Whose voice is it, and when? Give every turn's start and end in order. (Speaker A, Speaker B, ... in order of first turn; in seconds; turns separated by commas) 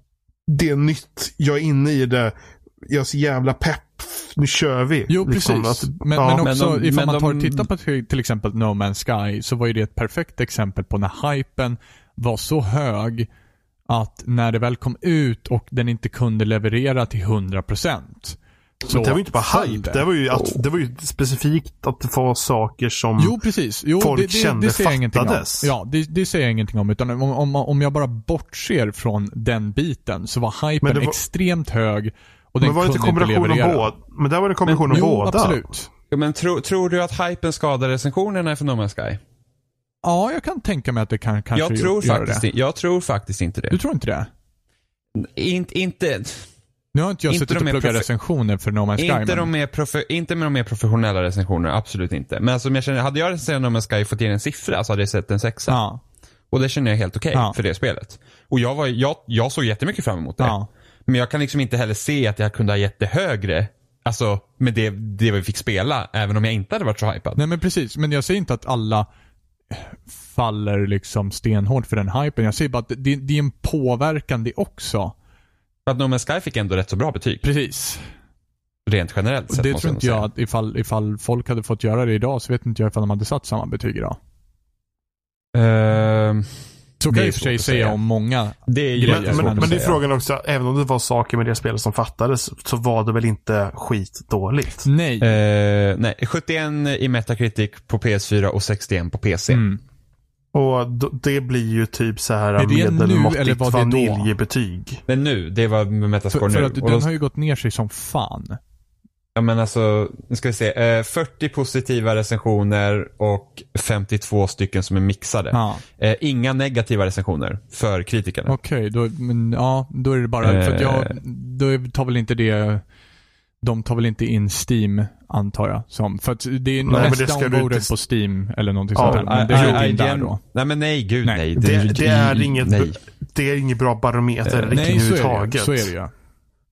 Speaker A: 0.5-2.3, Speaker A: 2.9-6.5, Speaker B: 5.1-13.3, Speaker C: 6.4-7.7, Speaker B: 13.9-20.6, Speaker A: 18.9-23.4, Speaker B: 23.2-33.9, Speaker A: 24.0-25.7, Speaker A: 30.8-31.2, Speaker A: 32.6-35.7, Speaker B: 34.9-35.9, Speaker C: 36.1-39.2, Speaker B: 40.0-42.5, Speaker C: 41.5-43.8, Speaker B: 43.7-44.3, Speaker C: 45.1-46.5, Speaker B: 46.9-49.5, Speaker C: 47.3-48.1, Speaker C: 49.0-55.8, Speaker B: 55.7-56.0, Speaker C: 56.5-67.4, Speaker B: 60.4-60.7, Speaker B: 67.4-69.1, Speaker B: 69.7-75.2, Speaker C: 75.9-77.4, Speaker B: 77.4-78.1, Speaker C: 78.9-80.3, Speaker B: 79.5-84.2, Speaker C: 85.5-88.0, Speaker B: 87.0-89.9, Speaker C: 88.7-90.0, Speaker A: 89.1-94.9, Speaker B: 94.8-95.3, Speaker C: 95.2-99.6, Speaker B: 99.5-99.8, Speaker A: 100.5-105.0, Speaker B: 102.6-104.3, Speaker C: 105.1-107.1, Speaker B: 106.3-108.6, Speaker C: 109.3-118.5, Speaker B: 115.5-115.8, Speaker B: 118.5-122.8, Speaker C: 120.4-121.2, Speaker B: 123.6-130.4, Speaker A: 126.9-127.9, Speaker A: 128.9-129.9, Speaker C: 129.0-133.0, Speaker A: 131.6-135.9, Speaker C: 134.4-134.9, Speaker B: 134.7-136.1